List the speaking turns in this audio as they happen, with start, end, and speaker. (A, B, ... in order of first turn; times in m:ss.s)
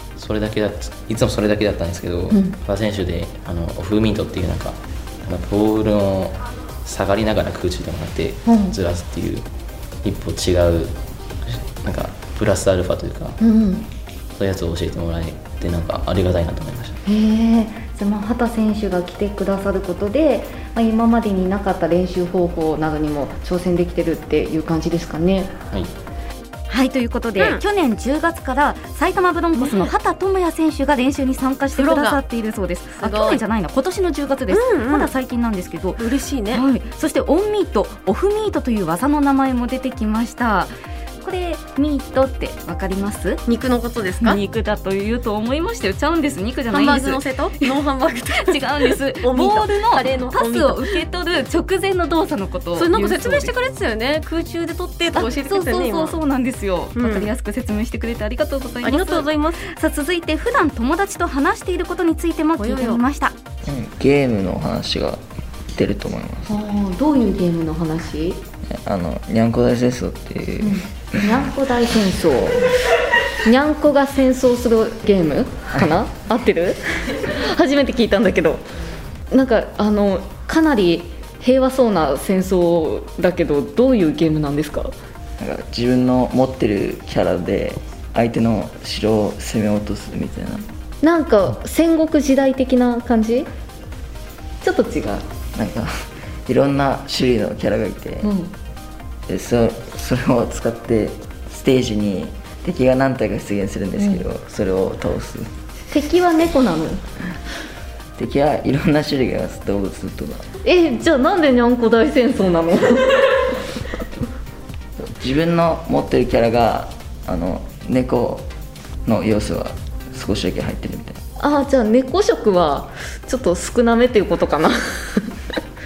0:00.2-0:09.5 A
0:02.3-0:02.6 B
0:08.4-0:08.8 B
0:10.0-0:13.4 A
0:13.4-0:13.9 B
0:14.4-0:17.0 A
0:17.0-0:25.5 B
0:26.7-0:40.7 C
0:29.6-0:29.9 D
0:31.7-0:32.2 D
0:33.0-0:33.4 D
0:34.5-0:35.1 D
0:36.0-0:36.6 D
0:41.2-0:43.4 C
0:43.4-0:44.4 D
0:44.2-0:47.7 C
0:46.7-0:51.0 D
0:48.4-0:53.5 C
0:52.7-0:56.2 D
0:55.1-1:03.3 C
0:57.0-0:57.3 D
0:58.8-0:59.7 D
1:02.6-1:03.0 D
1:03.6-1:05.2 E
1:05.7-1:06.5 E
1:06.5-1:08.4 B
1:08.7-1:11.2 E
1:10.6-1:12.7 B
1:13.4-1:18.6 B
1:19.3-1:24.9 B
1:25.4-1:30.6 E
1:31.0-1:33.5 B
1:34.6-1:35.2 B
1:35.5-1:35.9 E
1:36.5-1:38.3 E
1:38.2-1:38.5 B
1:39.3-1:45.5 E
1:45.9-1:47.0 B
1:48.2-1:50.4 E
1:50.6-1:53.6 B
1:55.0-1:58.5 E
1:59.0-2:01.2 E
2:01.4-2:05.3 B